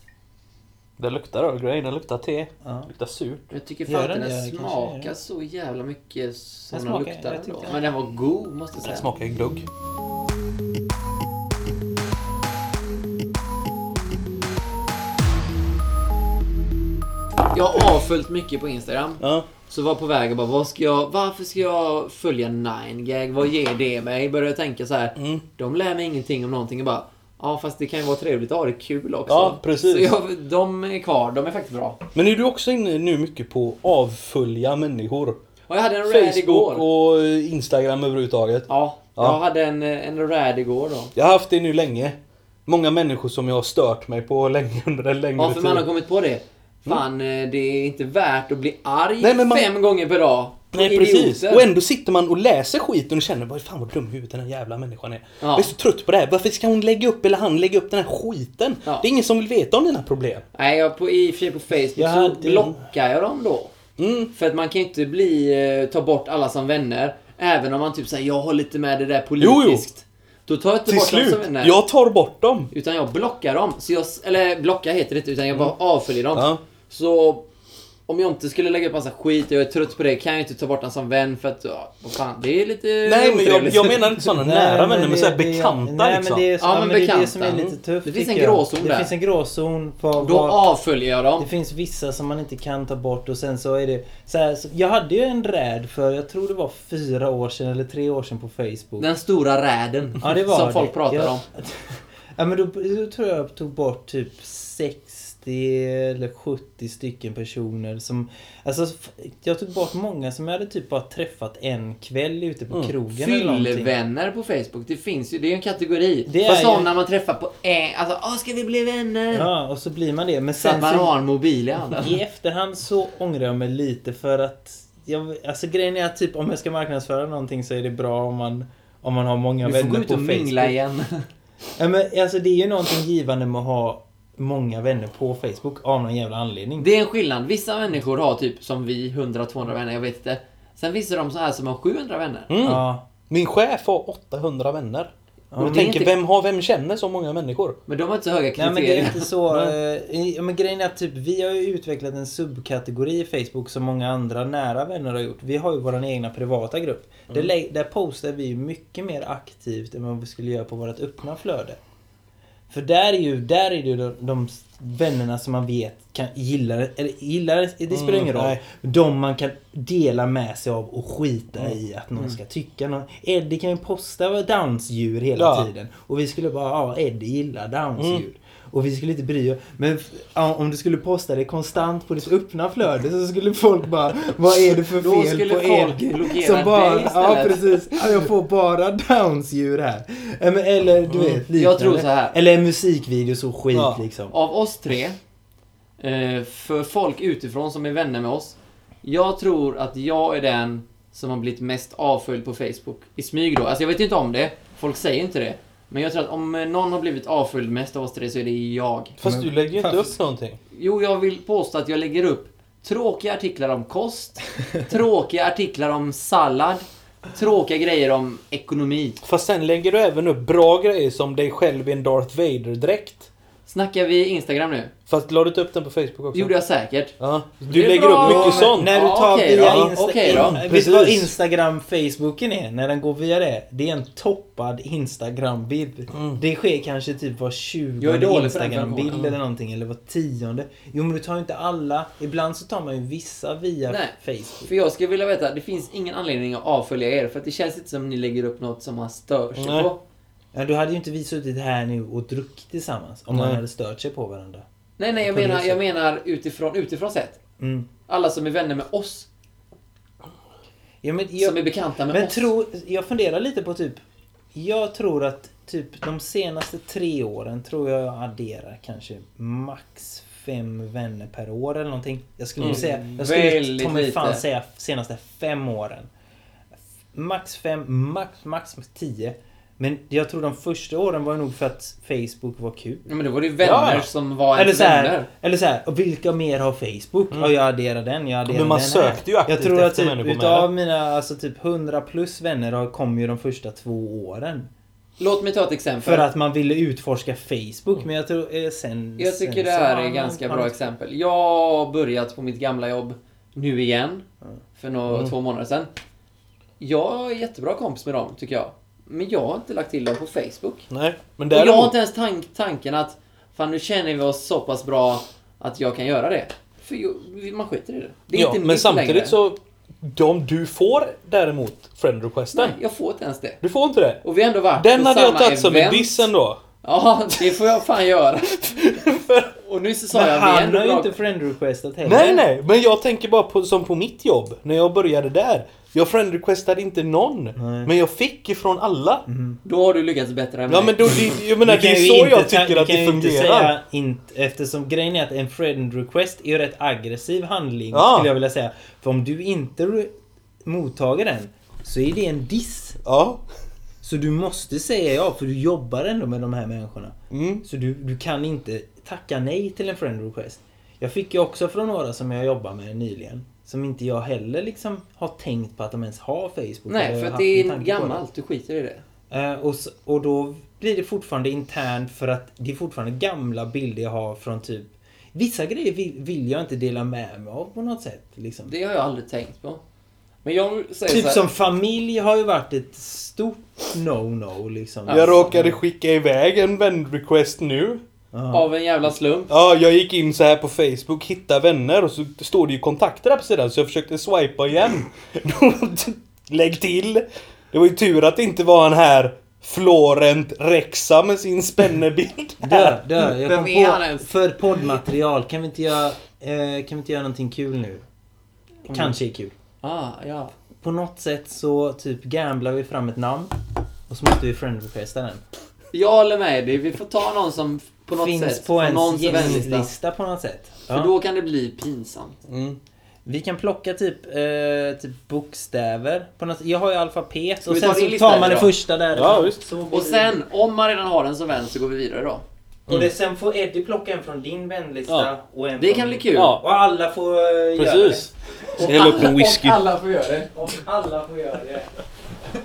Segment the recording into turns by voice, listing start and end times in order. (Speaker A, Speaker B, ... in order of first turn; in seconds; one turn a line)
Speaker A: 1.0-3.5
Speaker B: 2.6-2.9
Speaker C: 3.5-9.1
Speaker B: 3.9-5.1
Speaker B: 6.7-7.8
Speaker A: 8.8-9.7
Speaker C: 17.5-32.0
Speaker A: 19.2-19.5
Speaker A: 25.2-25.4
Speaker A: 29.3-30.1
Speaker A: 32.1-35.4
Speaker C: 35.7-36.9
Speaker A: 36.1-39.4
Speaker C: 38.7-41.1
Speaker A: 41.2-45.9
Speaker C: 45.4-51.7
Speaker A: 49.2-49.7
Speaker A: 50.7-60.5
Speaker C: 55.4-55.7
Speaker C: 60.5-63.7
Speaker B: 62.0-62.8
Speaker A: 64.0-64.3
Speaker C: 64.3-71.8
Speaker A: 69.4-69.8
Speaker A: 70.9-72.7
Speaker C: 72.7-77.5
Speaker A: 76.3-76.6
Speaker C: 78.1-84.2
Speaker A: 83.0-86.4
Speaker B: 84.3-90.6
Speaker C: 86.6-89.1
Speaker C: 90.2-91.5
Speaker B: 91.4-99.1
Speaker C: 99.0-101.4
Speaker B: 100.2-113.9
Speaker C: 113.1-119.5
Speaker B: 116.3-116.9
Speaker B: 119.3-121.1
Speaker C: 120.6-122.2
Speaker B: 121.9-130.8
Speaker C: 129.6-131.3
Speaker B: 131.8-136.9
Speaker C: 136.8-142.5
Speaker A: 142.5-147.8
Speaker B: 142.6-143.0
Speaker B: 145.5-146.0
Speaker C: 145.6-146.1
Speaker C: 147.9-149.3
Speaker B: 148.6-161.8
Speaker B: 162.7-194.3
Speaker A: 167.9-168.6
Speaker A: 175.4-175.7
Speaker A: 178.0-178.2
Speaker C: 185.0-187.9
Speaker A: 191.1-191.4
Speaker C: 191.5-192.4
Speaker A: 193.7-194.0
Speaker C: 194.3-195.2
Speaker C: 196.0-209.2
Speaker A: 209.2-210.6
Speaker B: 209.2-210.1
Speaker C: 210.7-219.2
Speaker A: 219.2-223.3
Speaker C: 223.7-224.9
Speaker A: 225.1-226.5
Speaker C: 226.3-227.2
Speaker A: 227.2-228.9
Speaker C: 227.7-230.6
Speaker B: 228.2-244.7
Speaker A: 229.6-231.3
Speaker A: 236.1-236.4
Speaker C: 238.0-239.2
Speaker C: 243.9-250.0
Speaker A: 249.6-249.9
Speaker B: 250.5-254.6
Speaker C: 255.0-257.4
Speaker B: 255.2-255.8
Speaker B: 257.6-257.9
Speaker C: 258.1-259.3
Speaker B: 261.0-264.0
Speaker C: 261.4-262.5
Speaker B: 264.6-276.1
Speaker A: 272.6-273.1
Speaker C: 272.6-274.4
Speaker B: 277.1-283.1
Speaker C: 283.1-285.3
Speaker A: 283.6-284.1
Speaker B: 284.6-294.7
Speaker A: 288.4-290.7
Speaker C: 295.2-296.3
Speaker B: 296.0-300.9
Speaker C: 299.2-305.9
Speaker C: 306.8-310.9
Speaker A: 310.9-311.9
Speaker C: 311.5-319.4
Speaker A: 318.3-322.8
Speaker C: 322.5-323.6
Speaker A: 323.6-324.2
Speaker C: 324.2-326.3
Speaker A: 324.8-326.6
Speaker C: 326.8-328.8
Speaker A: 328.7-329.5
Speaker C: 329.6-331.2
Speaker B: 330.1-332.4
Speaker A: 332.1-339.2
Speaker B: 337.6-337.9
Speaker B: 339.3-339.6
Speaker C: 339.6-341.4
Speaker A: 340.7-343.7
Speaker B: 341.6-350.1
Speaker A: 347.9-348.3
Speaker B: 350.6-353.0
Speaker A: 353.1-353.4
Speaker B: 354.0-368.2
Speaker A: 357.3-357.6
Speaker C: 366.9-369.0
Speaker B: 369.3-378.7
Speaker C: 378.7-379.8
Speaker C: 380.4-381.4
Speaker B: 381.1-385.8
Speaker C: 385.1-385.4
Speaker A: 385.1-388.0
Speaker B: 388.3-388.7
Speaker C: 388.5-389.5
Speaker A: 389.5-403.1
Speaker B: 402.6-408.0
Speaker C: 403.3-404.3
Speaker B: 408.9-409.5
Speaker C: 409.8-410.5
Speaker B: 410.8-413.5
Speaker B: 414.1-415.4
Speaker C: 415.9-419.9
Speaker B: 418.2-421.1
Speaker A: 419.3-419.6
Speaker C: 420.9-422.4
Speaker A: 422.5-422.8
Speaker B: 423.3-430.4
Speaker C: 427.7-428.7
Speaker A: 429.1-429.6
Speaker C: 429.9-432.4
Speaker B: 432.9-438.3
Speaker C: 435.8-436.6
Speaker A: 436.3-436.6
Speaker A: 437.8-439.8
Speaker C: 438.8-440.5
Speaker B: 440.5-441.9